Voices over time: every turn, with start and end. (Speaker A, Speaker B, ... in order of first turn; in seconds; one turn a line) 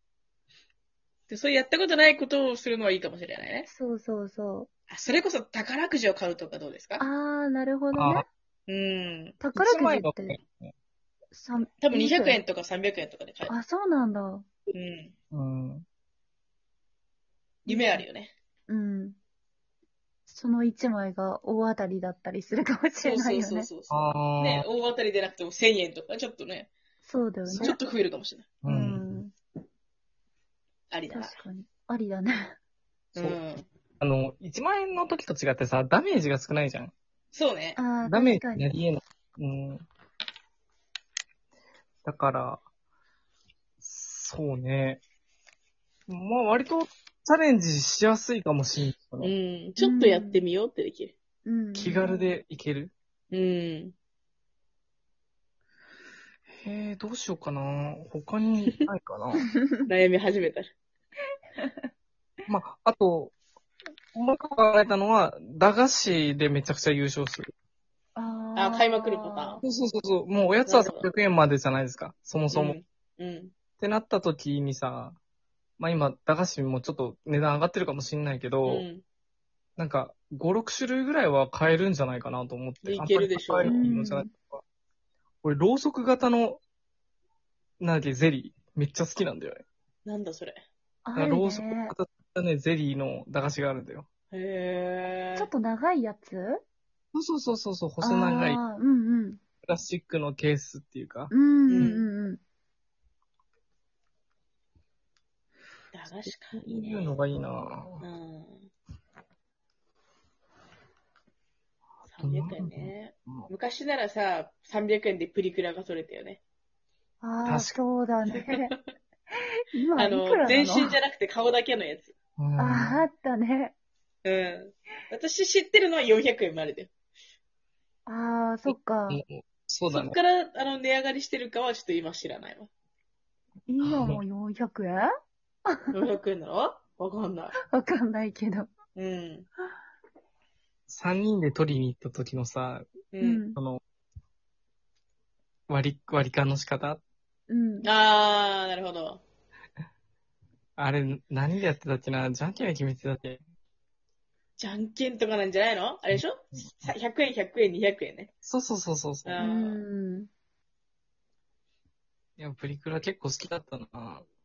Speaker A: 1.3-3.7
Speaker B: 3.7-4.7
Speaker A: 4.9-7.1
Speaker B: 7.0-8.2
Speaker C: 7.9-8.2
Speaker A: 8.7-9.4
Speaker B: 9.4-10.4
Speaker C: 9.6-10.7
Speaker B: 11.3-12.4
Speaker A: 11.8-13.6
Speaker B: 13.5-14.5
Speaker A: 14.7-15.1
Speaker C: 15.3-15.8
Speaker A: 17.7-18.3
Speaker B: 17.7-18.1
Speaker B: 18.7-19.2
Speaker B: 20.3-23.7
Speaker A: 23.0-26.7
Speaker C: 23.9-24.6
Speaker B: 27.0-27.8
Speaker C: 27.5-27.8
Speaker A: 27.6-28.6
Speaker C: 28.6-29.0
Speaker B: 28.6-29.3
Speaker A: 30.9-31.4
Speaker B: 31.1-32.5
Speaker A: 33.1-33.7
Speaker C: 34.0-36.9
Speaker A: 37.3-37.8
Speaker B: 37.8-38.7
Speaker C: 38.0-39.9
Speaker C: 42.0-42.6
Speaker C: 43.8-45.0
Speaker C: 46.1-49.3
Speaker A: 49.2-51.1
Speaker B: 49.8-50.5
Speaker B: 51.5-52.3
Speaker C: 51.8-52.9
Speaker A: 53.3-53.9
Speaker C: 56.6-59.5
Speaker A: 59.9-60.7
Speaker B: 61.6-61.9
Speaker C: 62.5-63.4
Speaker C: 64.1-67.5
Speaker B: 68.2-69.6
Speaker A: 68.6-69.6
Speaker C: 69.6-72.8
Speaker A: 70.7-71.1
Speaker A: 72.5-73.5
Speaker C: 73.8-75.2
Speaker C: 75.8-78.8
Speaker A: 78.7-79.0
Speaker C: 79.8-84.6
Speaker A: 82.8-83.8
Speaker B: 83.7-84.3
Speaker C: 85.4-86.6
Speaker C: 87.8-89.6
Speaker A: 90.0-90.6
Speaker B: 91.1-91.9
Speaker C: 91.2-94.1
Speaker A: 94.3-95.5
Speaker B: 95.4-96.6
Speaker C: 97.1-98.6
Speaker B: 98.0-99.4
Speaker C: 99.6-101.9
Speaker B: 101.3-102.4
Speaker A: 101.7-102.1
Speaker A: 105.9-107.1
Speaker C: 106.1-108.0
Speaker A: 108.0-108.7
Speaker C: 112.0-113.5
Speaker A: 112.1-116.4
Speaker B: 117.2-118.7
Speaker C: 117.4-117.8
Speaker A: 118.3-118.9
Speaker B: 119.4-121.0
Speaker A: 120.0-122.1
Speaker C: 122.4-123.0
Speaker B: 122.6-123.7
Speaker A: 124.2-126.9
Speaker B: 128.1-129.2
Speaker C: 129.1-130.2
Speaker A: 129.9-132.7
Speaker B: 133.7-135.1
Speaker C: 133.8-134.2
Speaker A: 135.9-137.6
Speaker B: 137.6-138.7
Speaker A: 138.9-139.5
Speaker C: 140.9-142.9
Speaker A: 143.1-143.4
Speaker B: 143.2-143.6
Speaker C: 143.6-143.8
Speaker C: 145.7-147.0
Speaker B: 147.5-147.9
Speaker A: 147.8-149.2
Speaker C: 150.8-153.4
Speaker A: 154.6-158.3
Speaker C: 156.1-156.9
Speaker C: 158.4-159.4
Speaker A: 159.2-159.8
Speaker B: 159.4-160.3
Speaker C: 162.4-164.3